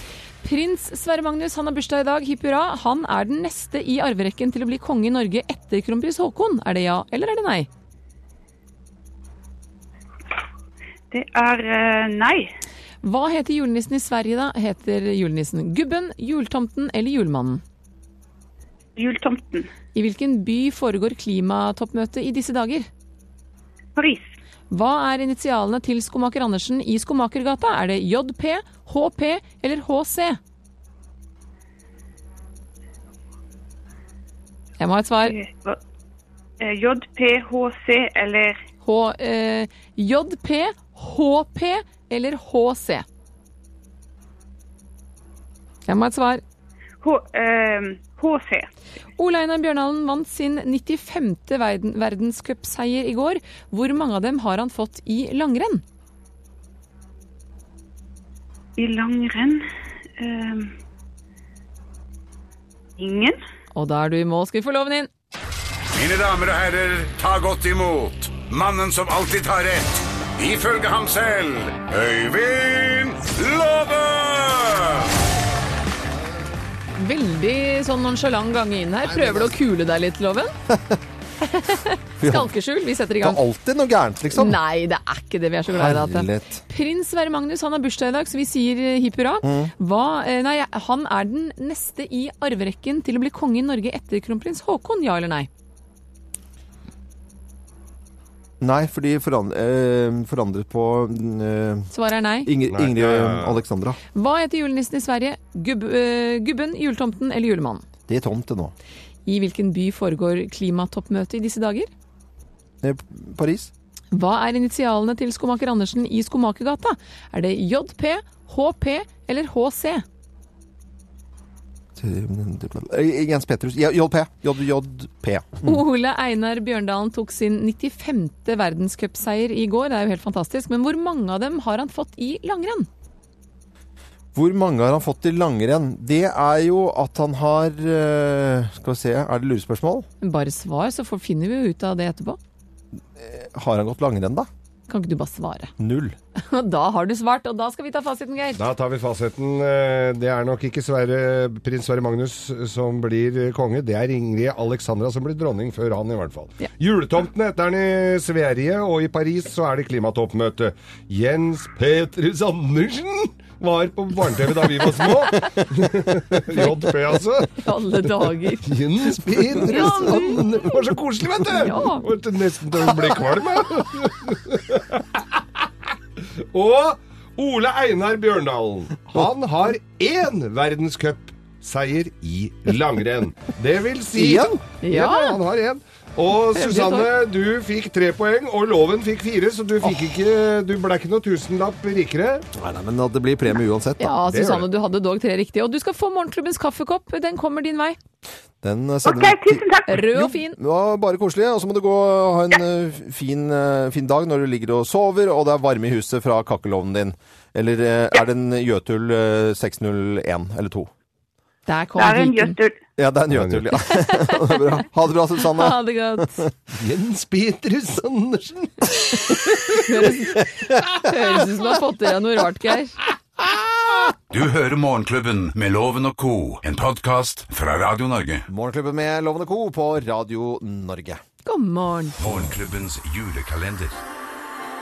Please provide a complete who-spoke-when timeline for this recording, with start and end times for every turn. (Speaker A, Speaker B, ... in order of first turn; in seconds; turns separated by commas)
Speaker A: 0.4-7.7, Speaker B: 11.1-12.5, Speaker A: 13.0-17.6, Speaker B: 19.0-19.7, Speaker A: 19.9-22.9, Speaker B: 23.9-24.3, Speaker A: 24.7-30.4, Speaker A: 34.8-35.4, Speaker B: 35.2-35.8, Speaker B: 36.6-38.6, Speaker A: 38.8-43.0, Speaker A: 45.9-46.4, Speaker B: 47.0-48.7, Speaker A: 49.2-55.8, Speaker B: 58.8-59.6, Speaker B: 60.2-60.7, Speaker B: 63.0-63.4, Speaker A: 63.7-65.1, Speaker C: 65.9-75.1, Speaker A: 77.0-80.5, Speaker D: 80.7-81.0, Speaker A: 81.4-83.4, Speaker D: 82.2-82.5, Speaker D: 83.2-84.6, Speaker A: 84.3-95.5, Speaker D: 85.7-86.6, Speaker D: 89.4-89.7, Speaker D: 98.6-101.9, Speaker A: 101.9-102.5, Speaker D: 102.4-104.0, Speaker E: 102.7-103.6, Speaker A: 104.1-107.8, Speaker D: 108.1-108.7, Speaker A: 109.2-111.9, Speaker D: 112.8-113.7, Speaker A: 114.1-120.0, Speaker D: 122.0-125.8, Speaker A: 125.6-132.9, Speaker D: 134.3-140.1, Speaker A: 140.2-142.4, Speaker D: 143.2-144.5, Speaker A: 144.9-145.7, Speaker D: 145.8-146.2, Speaker A: 146.5-148.6, Speaker E: 148.6-167.6, Speaker A: 167.6-168.8, Speaker E: 168.6-175.6, Speaker A: 169.5-170.8, Speaker A: 171.5-172.0, Speaker E: 176.5-192.4, Speaker D: 184.1-184.5, Speaker A: 184.8-185.4, Speaker A: 186.5-187.1, Speaker D: 192.5-194.2, Speaker A: 194.0-198.0, Speaker E: 194.2-194.7, Speaker D: 198.6-210.9, Speaker B: 199.0-199.9, Speaker A: 199.9-200.6, Speaker A: 211.7-212.6, Speaker B: 212.0-212.8, Speaker D: 213.0-216.5, Speaker E: 213.3-213.6, Speaker A: 213.8-214.6, Speaker A: 215.5-216.4, Speaker E: 216.7-219.8, Speaker A: 219.8-223.0, Speaker C: 224.3-228.4, Speaker D: 228.5-231.2, Speaker A: 231.4-232.2, Speaker C: 232.2-234.0